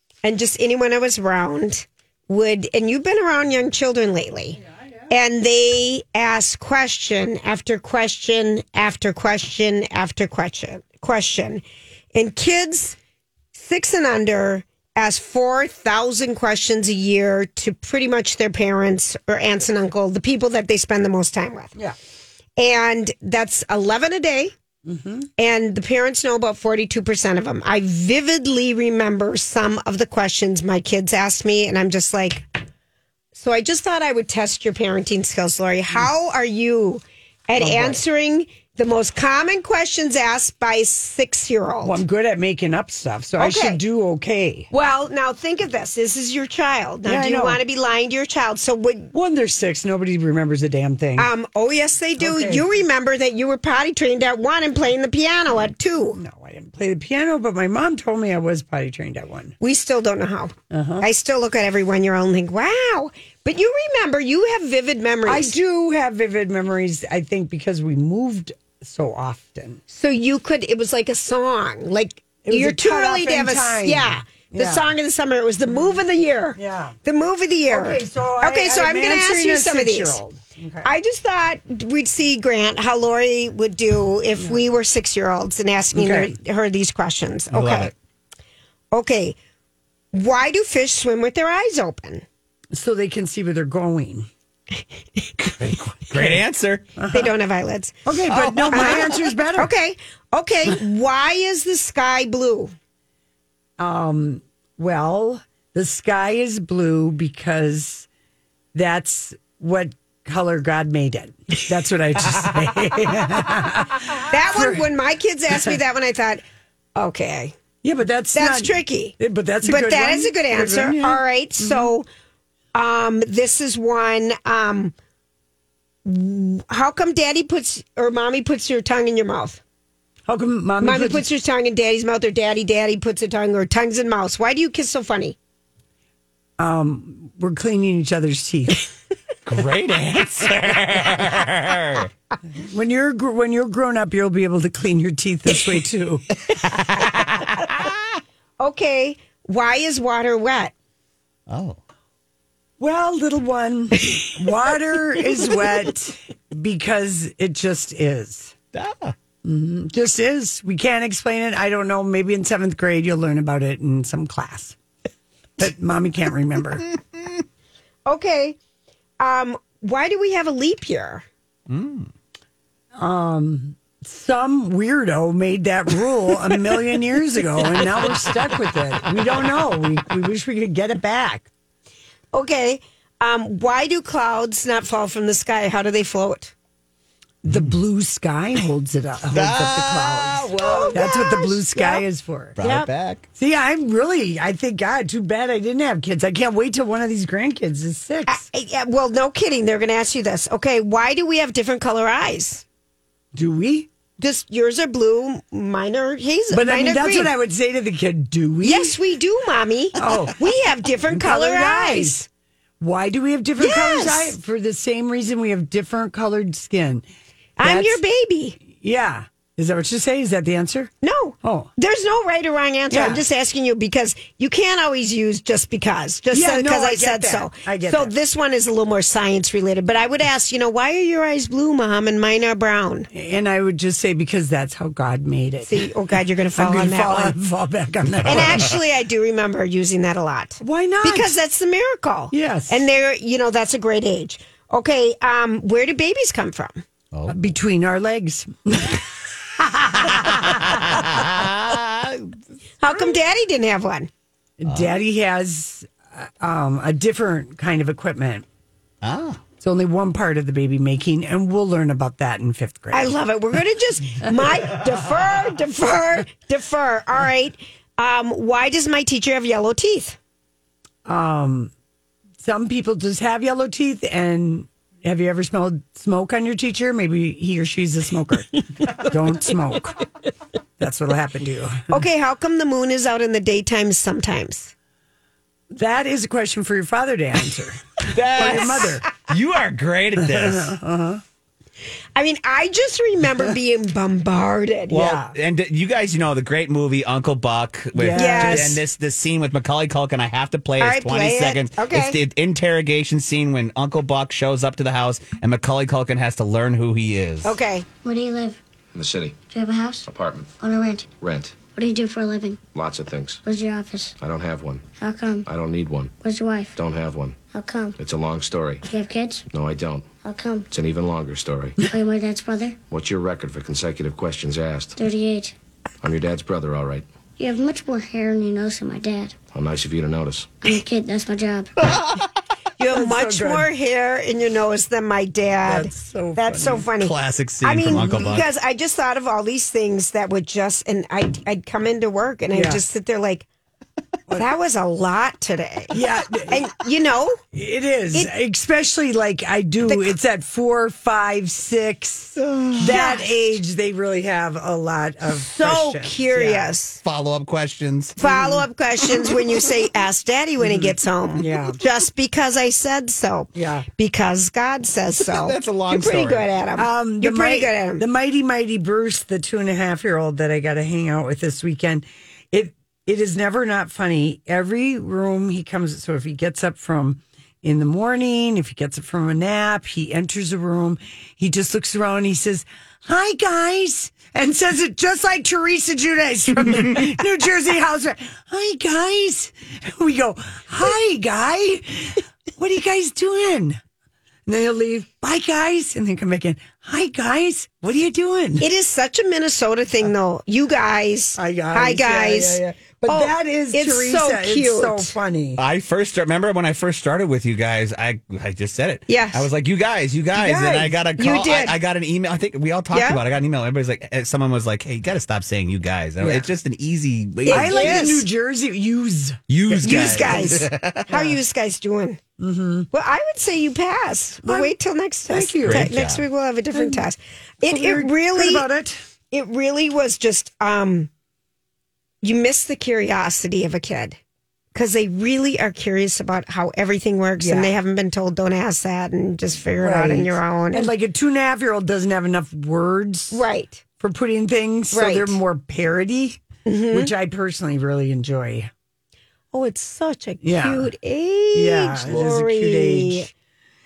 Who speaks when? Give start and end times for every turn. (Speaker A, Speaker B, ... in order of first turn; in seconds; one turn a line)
Speaker A: 0.2-13.0
Speaker A: 13.5-21.7
Speaker A: 22.6-24.5
Speaker B: 24.8-25.3
Speaker A: 25.4-32.5
Speaker A: 33.3-42.0
Speaker B: 37.6-38.0
Speaker B: 41.8-44.7
Speaker A: 43.4-43.8
Speaker A: 44.7-49.1
Speaker B: 47.0-47.6
Speaker B: 49.1-51.3
Speaker A: 51.2-56.2
Speaker B: 52.2-52.7
Speaker B: 56.1-59.5
Speaker A: 59.6-65.5
Speaker B: 60.7-61.1
Speaker B: 65.2-69.8
Speaker A: 69.9-80.2
Speaker B: 72.4-74.9
Speaker B: 75.7-76.0
Speaker B: 76.5-77.0
Speaker B: 77.7-80.9
Speaker A: 80.8-87.9
Speaker B: 85.9-86.3
Speaker C: 87.5-87.9
Speaker A: 88.9-89.3
Speaker A: 90.1-92.2
Speaker B: 92.7-94.3
Speaker C: 95.4-96.9
Speaker B: 95.6-96.4
Speaker B: 97.0-97.3
Speaker A: 97.1-98.0
Speaker B: 98.0-99.7
Speaker C: 98.3-99.2
Speaker A: 98.7-102.7
Speaker B: 103.8-108.1
Speaker B: 108.7-114.9
Speaker A: 114.3-116.4
Speaker A: 117.0-117.5
Speaker B: 117.8-121.9
Speaker A: 118.3-122.1
Speaker A: 122.7-124.9
Speaker A: 126.0-129.6
Speaker B: 130.3-131.2
Speaker A: 130.8-135.3
Speaker B: 136.6-138.8
Speaker C: 139.4-142.1
Speaker B: 139.5-140.5
Speaker B: 142.6-146.2
Speaker C: 146.6-147.9
Speaker A: 148.6-150.7
Speaker C: 151.5-151.8
Speaker B: 152.8-158.5
Speaker C: 158.7-159.1
Speaker B: 159.4-164.8
Speaker B: 165.6-166.8
Speaker A: 168.1-168.6
Speaker A: 169.2-171.2
Speaker C: 171.7-172.1
Speaker B: 173.0-181.5
Speaker A: 182.3-186.5
Speaker B: 187.4-192.6
Speaker C: 189.3-191.3
Speaker A: 190.6-192.0
Speaker C: 192.6-193.2
Speaker A: 192.6-192.9
Speaker B: 193.3-198.4
Speaker A: 198.3-202.6
Speaker B: 203.3-203.9
Speaker A: 204.2-207.3
Speaker B: 206.5-209.0
Speaker A: 208.6-212.3
Speaker B: 210.0-210.4
Speaker B: 211.1-212.2
Speaker B: 212.8-217.1
Speaker A: 213.6-214.3
Speaker A: 217.6-218.6
Speaker B: 217.6-218.0
Speaker B: 218.6-220.9
Speaker A: 221.0-233.1
Speaker B: 221.4-221.7
Speaker B: 222.9-223.2
Speaker B: 226.3-228.1
Speaker B: 233.1-235.8
Speaker A: 235.6-237.3
Speaker B: 236.5-238.8
Speaker A: 238.2-246.8
Speaker B: 240.6-241.3
Speaker B: 242.3-242.8
Speaker C: 247.1-247.4
Speaker B: 247.3-251.4
Speaker C: 249.9-252.4
Speaker A: 252.8-254.1
Speaker B: 254.6-258.4
Speaker C: 254.7-254.9
Speaker C: 259.0-259.4
Speaker B: 259.6-263.1
Speaker A: 262.9-270.2
Speaker B: 264.4-264.8
Speaker B: 271.0-271.7
Speaker B: 272.4-280.0
Speaker B: 280.8-281.9
Speaker A: 281.9-284.7
Speaker B: 285.7-289.1
Speaker C: 288.1-290.7
Speaker B: 290.2-291.2
Speaker A: 292.1-294.9
Speaker C: 294.9-307.6
Speaker B: 294.9-295.3
Speaker B: 297.9-298.8
Speaker A: 298.1-298.8
Speaker A: 300.8-302.2
Speaker A: 307.4-307.8
Speaker D: 308.0-308.6
Speaker E: 308.9-309.4
Speaker D: 309.5-310.0
Speaker E: 310.1-310.5
Speaker D: 310.6-311.1
Speaker E: 311.1-311.6
Speaker D: 311.6-312.6
Speaker E: 312.7-313.4
Speaker D: 313.4-314.1
Speaker E: 314.2-314.9
Speaker D: 315.0-315.4
Speaker E: 315.5-316.1
Speaker D: 316.2-316.7
Speaker E: 316.8-317.4
Speaker D: 317.5-317.9
Speaker E: 318.0-318.8
Speaker D: 318.9-319.4
Speaker E: 319.5-320.1
Speaker D: 320.2-320.7
Speaker E: 320.7-321.8
Speaker D: 321.8-322.8
Speaker E: 322.8-324.9
Speaker D: 325.0-325.5
Speaker E: 326.0-327.1
Speaker D: 327.4-329.4
Speaker E: 329.5-330.7
Speaker D: 330.6-331.7
Speaker A: 332.8-343.5
Speaker B: 332.9-333.7
Speaker B: 335.6-336.8
Speaker C: 336.6-338.5
Speaker B: 342.5-342.8
Speaker A: 344.3-347.4
Speaker B: 345.9-346.6
Speaker B: 347.5-356.7
Speaker A: 349.9-350.1
Speaker C: 352.4-352.9
Speaker A: 352.8-353.3
Speaker A: 355.3-357.0
Speaker C: 357.0-358.2
Speaker B: 358.2-358.6
Speaker A: 358.2-368.0
Speaker B: 360.6-361.8
Speaker B: 363.5-363.9
Speaker C: 365.2-366.5
Speaker B: 366.8-393.8
Speaker B: 394.5-398.6
Speaker A: 398.6-405.1
Speaker B: 401.4-405.6
Speaker C: 405.6-418.1
Speaker A: 409.1-409.4
Speaker B: 410.3-411.0
Speaker A: 411.1-411.8
Speaker A: 412.9-413.2
Speaker B: 416.2-416.5
Speaker A: 417.4-418.2
Speaker B: 417.5-421.4
Speaker C: 419.5-421.1
Speaker A: 419.8-422.2
Speaker B: 422.4-422.9
Speaker A: 422.9-428.7
Speaker B: 424.4-424.7
Speaker B: 425.3-425.9
Speaker C: 425.6-426.2
Speaker B: 426.7-427.0
Speaker B: 427.6-429.0
Speaker A: 429.3-431.1
Speaker A: 432.2-434.2
Speaker A: 434.7-440.9
Speaker B: 437.4-437.7
Speaker B: 439.8-443.4
Speaker A: 443.3-443.8
Speaker B: 444.0-448.7
Speaker A: 444.9-445.4
Speaker A: 446.6-447.1
Speaker A: 449.5-453.3
Speaker B: 450.4-450.9
Speaker B: 451.5-453.3